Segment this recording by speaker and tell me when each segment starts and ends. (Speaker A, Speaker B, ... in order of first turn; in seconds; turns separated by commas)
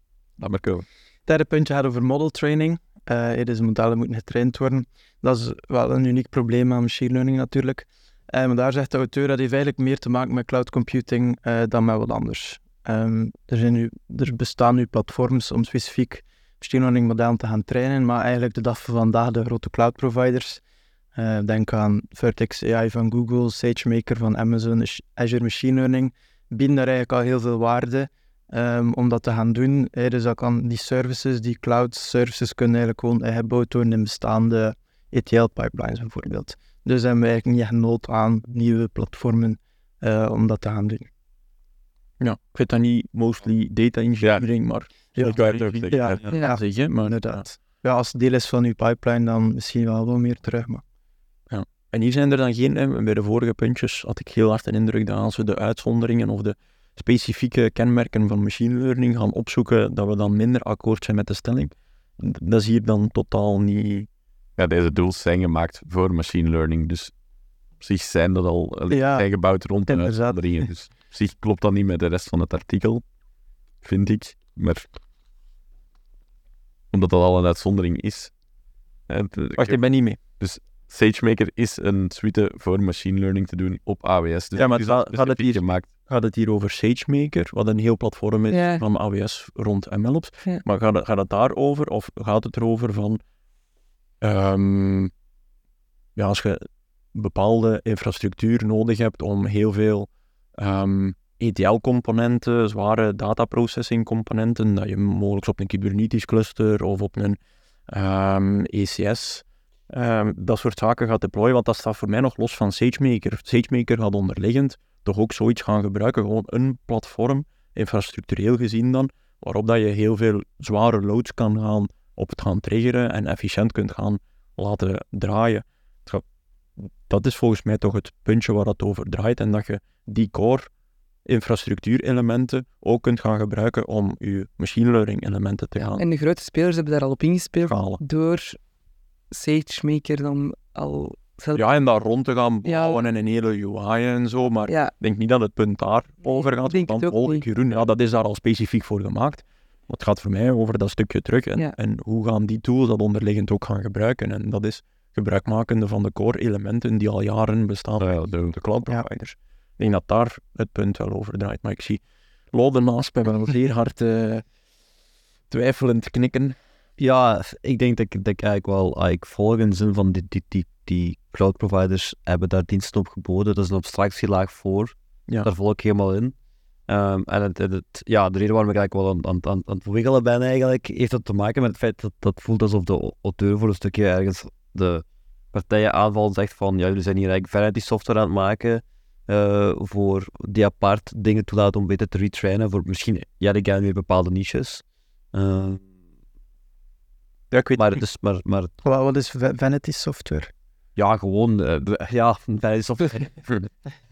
Speaker A: 0.4-0.8, Speaker B: 1.3-20.6, Speaker B: 21.1-41.1, Speaker C: 42.2-47.5, Speaker A: 45.2-46.3, Speaker B: 45.9-50.8, Speaker D: 46.3-46.5, Speaker C: 51.5-64.1, Speaker A: 64.6-67.1, Speaker A: 67.8-73.0, Speaker B: 68.9-69.2, Speaker B: 69.9-70.7, Speaker A: 73.8-74.9, Speaker A: 76.9-78.3, Speaker A: 79.1-79.8, Speaker C: 79.5-80.2, Speaker A: 80.4-85.9, Speaker C: 84.5-93.2, Speaker D: 88.5-88.8, Speaker C: 94.2-95.1, Speaker C: 96.2-107.4, Speaker C: 107.9-126.2, Speaker C: 127.1-130.7, Speaker C: 131.2-136.0, Speaker D: 136.0-138.6, Speaker C: 137.6-138.0, Speaker D: 139.3-141.6, Speaker C: 141.5-164.4, Speaker D: 142.7-143.0, Speaker D: 144.7-144.9, Speaker D: 146.2-147.4, Speaker A: 158.0-158.6, Speaker C: 165.5-166.6, Speaker E: 167.0-176.3, Speaker E: 176.9-194.8, Speaker E: 195.3-195.8, Speaker C: 197.5-198.0, Speaker E: 197.8-198.7, Speaker B: 198.8-200.5, Speaker E: 200.9-203.7